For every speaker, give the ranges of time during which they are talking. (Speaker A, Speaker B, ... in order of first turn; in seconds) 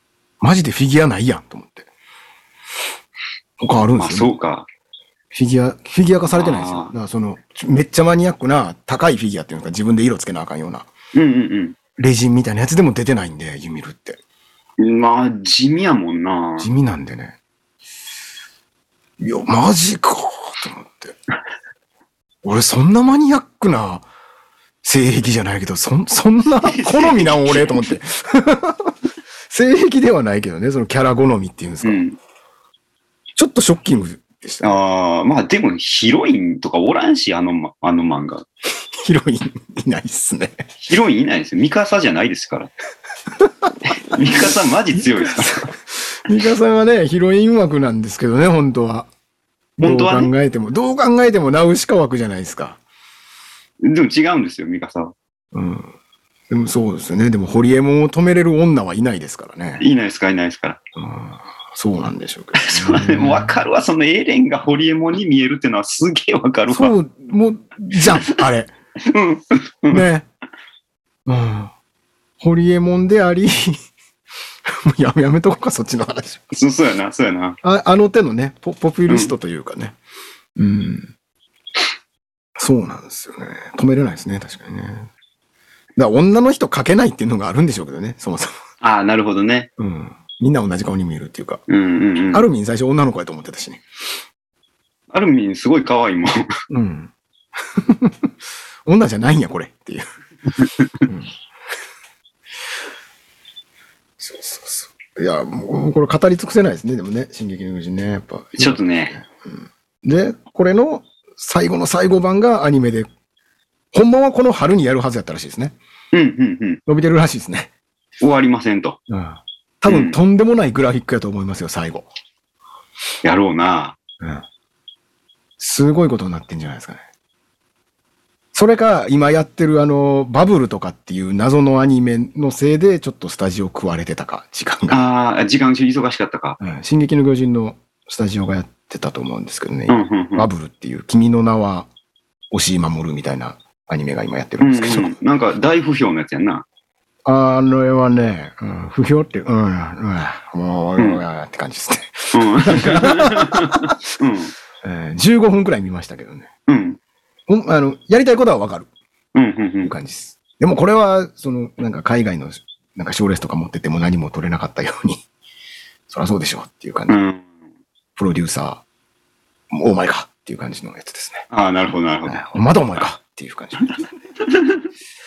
Speaker A: 0.4-1.9, 3.6-4.3, 5.3-10.9, 12.0-14.2, 16.6-17.4, 19.2-21.2, 22.4-24.1, 24.8-28.9, 29.5-32.0, 33.4-34.8, 38.9-40.7, 43.4-49.1, 49.8-52.8, 55.5-55.9, 56.5-59.9, 61.0-63.6, 66.7-68.7, 69.9-70.3, 71.3-71.7, 72.4-73.8, 74.7-76.5, 77.6-80.0, 80.6-81.1, 82.6-85.1, 86.0-88.5, 89.8-91.6, 92.3-93.8, 96.7-98.3, 98.9-100.1, 101.1-101.3, 104.2-113.1, 113.9-115.8, 116.9-117.7, 119.1-122.1, 125.6-127.0, 128.5-135.0, 136.6-141.9, 142.5-145.1, 147.3-153.9, 154.8-156.5, 157.5-158.9, 159.8-165.2, 166.1-167.2, 168.2-168.8, 169.7-171.4, 172.3-174.1
Speaker B: 4.0-4.7, 6.3-6.9, 11.1-11.8, 14.8-16.7, 26.6-27.9, 31.8-32.2, 34.6-38.5, 40.8-42.7, 43.9-45.7, 49.8-50.3, 53.8-55.1, 59.8-60.8, 62.6-67.0, 68.1-68.4, 69.0-70.1, 76.5-77.6, 79.1-79.3, 88.8-89.7, 91.7-92.5, 95.1-96.6, 100.6-100.9, 108.6-109.2, 116.1-116.8, 118.2-119.0, 119.9-120.2, 123.2-124.0, 134.9-136.6, 139.9-140.5, 144.6-146.7, 152.3-154.5, 156.7-157.0, 159.3-159.9, 167.1-167.4, 171.5-172.4, 174.5-174.8